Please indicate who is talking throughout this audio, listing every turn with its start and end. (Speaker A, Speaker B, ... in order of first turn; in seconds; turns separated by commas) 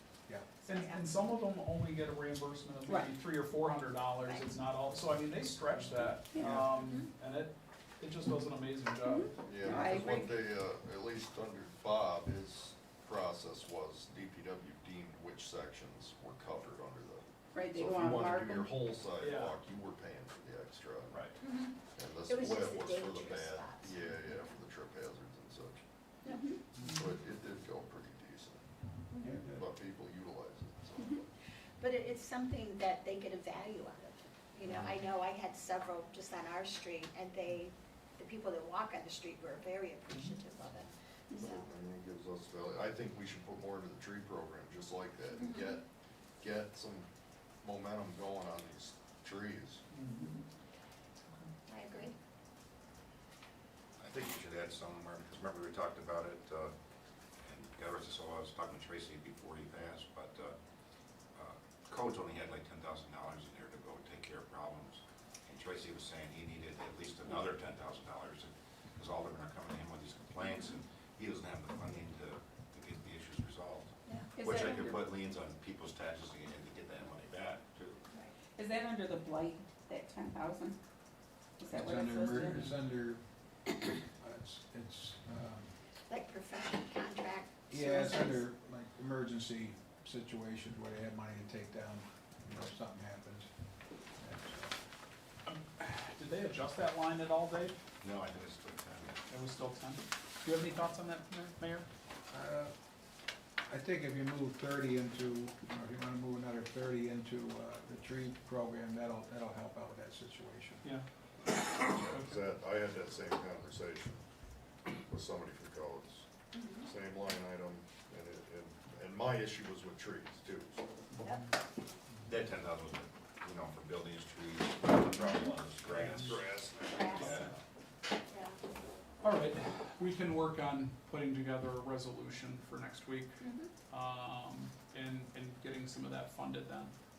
Speaker A: 0.6-1.1, Speaker B: 0.6-9.4, Speaker C: 6.3-6.7, Speaker A: 6.8-7.1, Speaker C: 9.0-10.4, Speaker D: 9.4-21.3, Speaker C: 17.5-18.7, Speaker B: 19.2-19.6, Speaker B: 21.1-21.4, Speaker A: 21.4-23.9, Speaker D: 21.9-25.8, Speaker C: 26.2-26.6, Speaker D: 26.8-28.6, Speaker B: 26.8-27.1, Speaker E: 29.2-29.6, Speaker D: 29.5-31.3, Speaker A: 31.8-41.6, Speaker D: 41.3-45.8, Speaker A: 45.4-45.8, Speaker D: 46.4-47.1, Speaker D: 47.6-49.8, Speaker B: 49.9-50.4, Speaker A: 51.7-52.1, Speaker F: 54.0-56.7, Speaker F: 57.4-60.5, Speaker F: 61.4-78.0, Speaker A: 70.5-70.8, Speaker C: 74.3-75.0, Speaker C: 78.6-80.8, Speaker C: 81.6-82.7, Speaker E: 81.7-83.2, Speaker E: 84.1-85.7, Speaker A: 86.1-88.4, Speaker E: 87.7-93.5, Speaker E: 94.2-94.7, Speaker B: 95.5-97.8, Speaker F: 98.0-99.2, Speaker B: 99.3-101.9, Speaker E: 102.3-102.7, Speaker E: 103.7-110.8, Speaker D: 111.8-114.2, Speaker D: 115.1-116.3, Speaker A: 116.5-116.9, Speaker D: 116.8-120.8, Speaker A: 121.2-121.5, Speaker F: 122.2-127.6, Speaker B: 125.9-126.3, Speaker D: 126.5-127.1, Speaker A: 126.9-127.5, Speaker A: 128.3-128.6, Speaker B: 129.2-136.9, Speaker A: 133.4-133.7